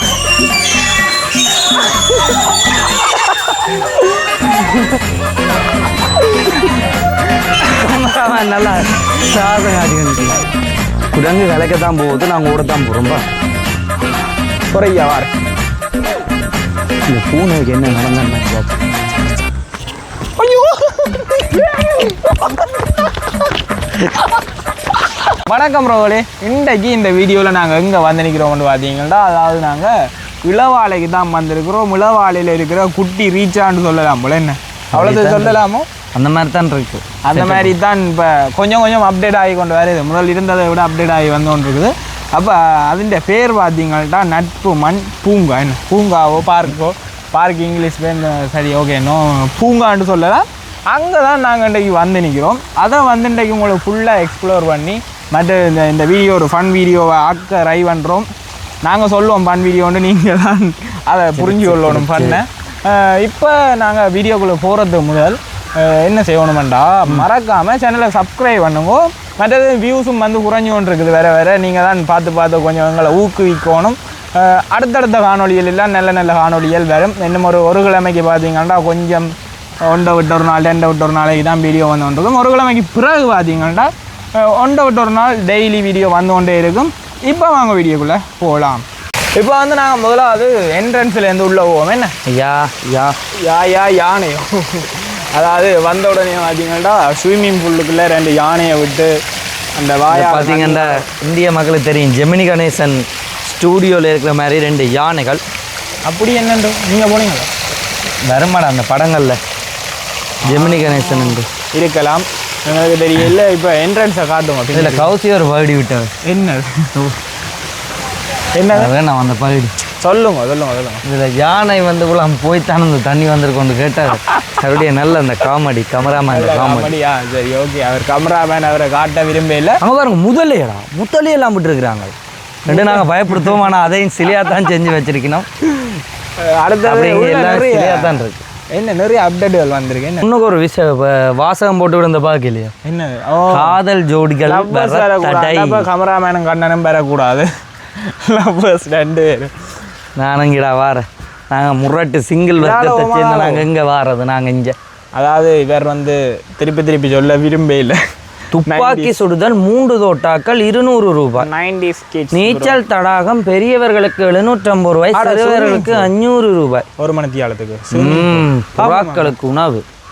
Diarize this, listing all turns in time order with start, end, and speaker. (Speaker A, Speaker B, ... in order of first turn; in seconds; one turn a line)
Speaker A: 7.6-10.4
Speaker A: 11.1-13.2
Speaker B: 14.7-15.3
Speaker A: 17.1-18.9
Speaker B: 20.4-22.6
Speaker B: 25.5-35.9
Speaker A: 34.9-35.6
Speaker A: 36.1-37.8
Speaker B: 37.2-58.3
Speaker B: 58.8-92.1
Speaker A: 61.4-62.4
Speaker A: 92.3-93.2
Speaker B: 93.3-99.2
Speaker B: 99.8-101.1
Speaker A: 100.1-105.4
Speaker B: 106.1-107.5
Speaker A: 108.3-109.4
Speaker A: 110.4-111.5
Speaker B: 110.5-115.1
Speaker A: 114.7-116.1
Speaker B: 116.2-116.9
Speaker B: 118.5-118.9
Speaker A: 118.7-119.7
Speaker B: 120.0-121.0
Speaker A: 121.0-126.9
Speaker B: 126.2-129.8
Speaker A: 129.8-132.2
Speaker A: 132.7-135.5
Speaker B: 132.7-133.6
Speaker B: 135.8-140.2
Speaker A: 136.8-138.4
Speaker A: 140.2-142.7
Speaker B: 142.8-143.8
Speaker A: 143.5-145.9
Speaker B: 144.5-149.5
Speaker A: 150.2-154.8
Speaker B: 152.6-153.7
Speaker B: 155.1-158.0
Speaker A: 158.5-161.5
Speaker B: 158.7-159.2
Speaker B: 161.4-162.8
Speaker A: 162.3-166.9
Speaker B: 165.1-166.1
Speaker B: 167.0-169.3
Speaker A: 167.9-169.8